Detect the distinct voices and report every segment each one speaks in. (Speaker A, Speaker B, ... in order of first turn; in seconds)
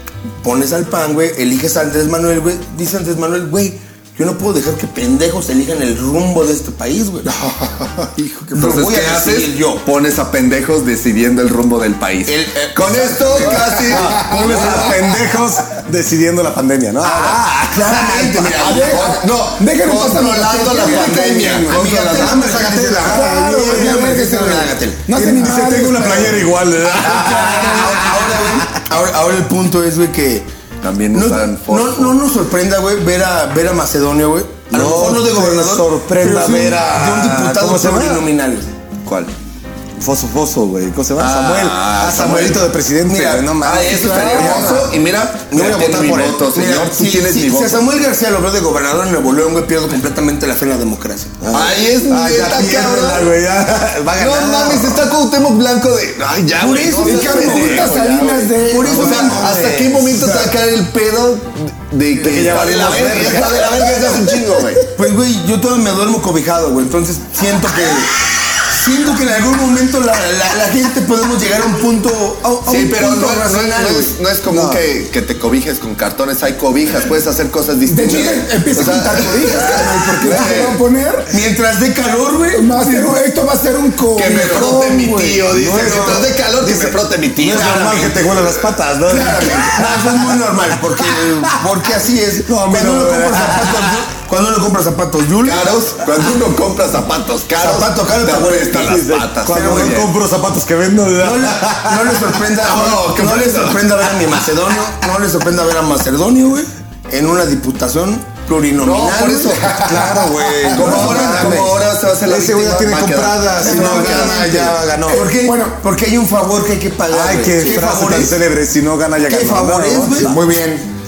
Speaker A: 0.4-7.3, 8.5-9.8, 12.2-15.0, 17.0-19.0, 20.7-25.1, 27.0-30.5, 31.1-38.7, 43.0-45.0, 45.5-51.4, 56.6-60.1, 62.7-63.4, 64.9-74.1, 81.3-82.8, 87.4-88.2, 89.1-95.7, 97.6-100.0, 101.2-111.8, 113.6-118.4, 119.3-120.3
Speaker B: 7.2-8.4, 13.9-14.7, 18.6-21.9, 22.9-28.0, 57.0-59.5, 60.1-60.5, 77.8-81.3, 82.5-85.5, 109.6-111.3, 113.7-114.0, 115.1-115.8, 120.2-120.9
Speaker C: 8.5-15.0, 18.0-22.4, 30.8-32.2, 39.0-39.3, 41.1-42.6, 43.6-47.9, 51.5-53.3, 54.1-64.8, 72.6-80.8, 84.1-88.5, 95.4-100.1, 102.6-104.2, 108.8-109.8, 110.7-114.3
Speaker D: 13.9-18.1, 22.0-24.2, 25.1-28.8, 34.7-38.3, 40.0-44.9, 45.7-46.4, 51.4-55.1, 62.1-64.8, 74.5-74.8, 85.5-91.9, 92.4-94.0, 98.7-102.4, 109.8-111.7, 112.2-115.3, 117.1-120.4